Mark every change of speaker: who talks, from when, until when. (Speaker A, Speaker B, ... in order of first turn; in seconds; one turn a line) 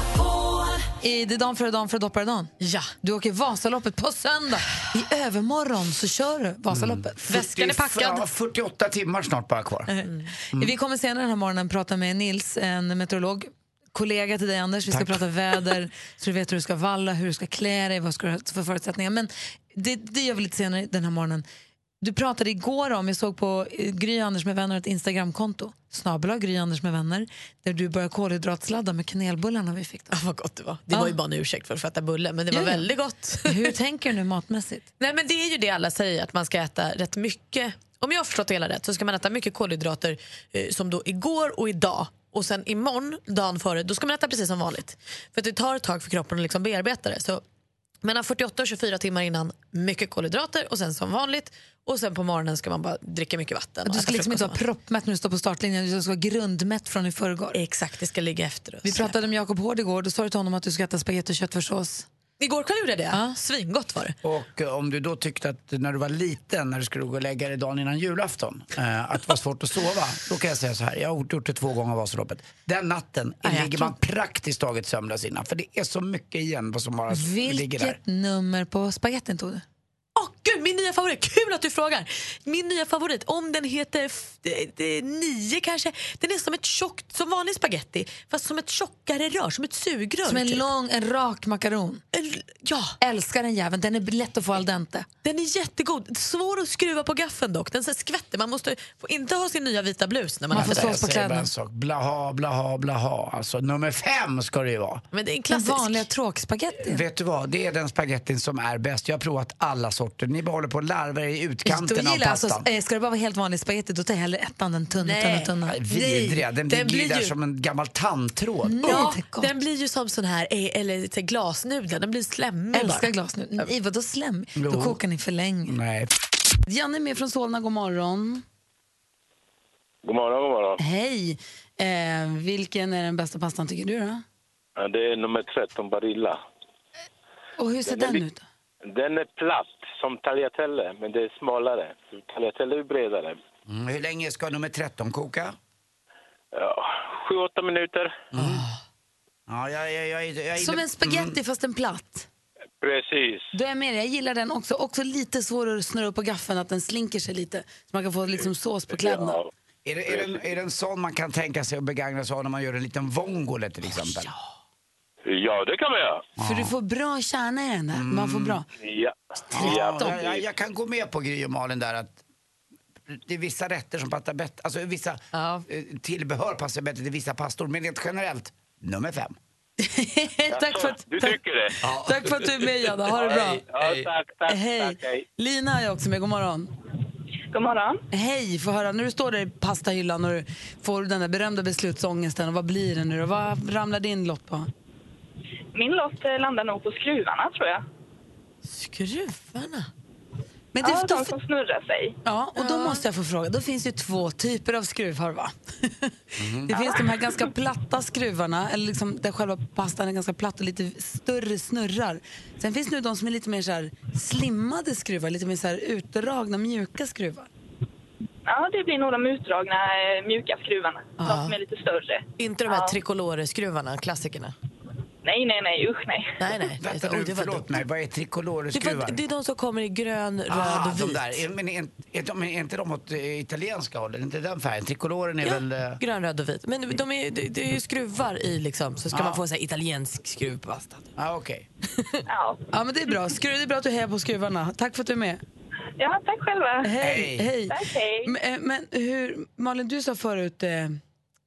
Speaker A: 1.0-7.3
Speaker B: 2.6-2.9
Speaker C: 6.7-9.9
Speaker B: 7.3-8.2
Speaker A: 9.9-21.4
Speaker C: 14.9-15.2
Speaker A: 22.0-30.2
Speaker B: 30.1-33.7
Speaker A: 30.9-31.2
Speaker A: 32.5-32.9
Speaker A: 33.4-34.9
Speaker B: 35.0-47.4
Speaker B: 48.0-54.6
Speaker A: 53.9-57.6
Speaker B: 57.5-59.2
Speaker A: 58.8-62.1
Speaker B: 62.4-64.2
Speaker C: 64.2-78.0
Speaker B: 73.5-73.9
Speaker A: 77.1-79.6
Speaker B: 80.2-90.7
Speaker A: 90.2-92.0
Speaker B: 92.1-93.0
Speaker A: 93.0-95.1
Speaker B: 95.2-101.1
Speaker C: 100.5-105.0
Speaker A: 100.5-101.5
Speaker B: 105.1-106.1
Speaker A: 105.5-107.0
Speaker C: 106.8-112.7
Speaker A: 111.7-116.4
Speaker B: 115.0-115.5
Speaker C: 115.7-119.1
Speaker B: 116.7-117.3
Speaker A: 118.7-119.5
Speaker B: 118.8-123.7
Speaker A: 122.7-125.8
Speaker C: 124.6-125.0
Speaker C: 125.7-126.1
Speaker A: 126.7-128.4
Speaker D: 130.0-130.8
Speaker A: 130.8-134.2
Speaker D: 134.8-136.4
Speaker A: 137.6-138.4
Speaker D: 137.9-138.2
Speaker D: 138.8-143.4
Speaker C: 143.7-145.6
Speaker D: 146.5-148.2
Speaker C: 148.3-148.7
Speaker B: 148.4-148.8
Speaker C: 149.5-151.4
Speaker A: 150.6-152.3
Speaker D: 152.8-153.5
Speaker A: 153.5-159.4
Speaker D: 158.9-159.5
Speaker C: 159.8-164.3
Speaker D: 165.3-166.3
Speaker C: 166.4-166.7
Speaker A: 166.4-168.7
Speaker C: 167.9-168.6
Speaker D: 168.7-170.4
Speaker C: 169.5-172.2
Speaker A: 169.5-170.2
Speaker C: 173.1-179.4
Speaker B: 175.4-175.6
Speaker A: 179.8-183.7
Speaker D: 180.5-181.8
Speaker D: 183.1-185.2
Speaker A: 184.5-186.7
Speaker E: 187.5-188.0
Speaker A: 188.1-194.7
Speaker E: 195.7-197.8
Speaker B: 198.7-199.9
Speaker A: 200.7-201.3
Speaker E: 200.8-202.2
Speaker A: 202.2-217.5
Speaker B: 202.6-203.0
Speaker C: 206.4-206.7
Speaker E: 218.5-223.0
Speaker B: 221.2-221.6
Speaker B: 222.4-224.6
Speaker E: 225.2-226.3
Speaker B: 226.4-227.8
Speaker C: 226.7-229.2
Speaker B: 228.7-231.4
Speaker C: 230.5-236.0
Speaker B: 235.4-241.1
Speaker C: 239.1-239.4
Speaker C: 241.2-241.7
Speaker E: 242.3-242.6
Speaker A: 242.7-245.4
Speaker E: 246.0-246.9
Speaker A: 246.8-251.0
Speaker C: 247.0-247.5
Speaker E: 247.7-248.3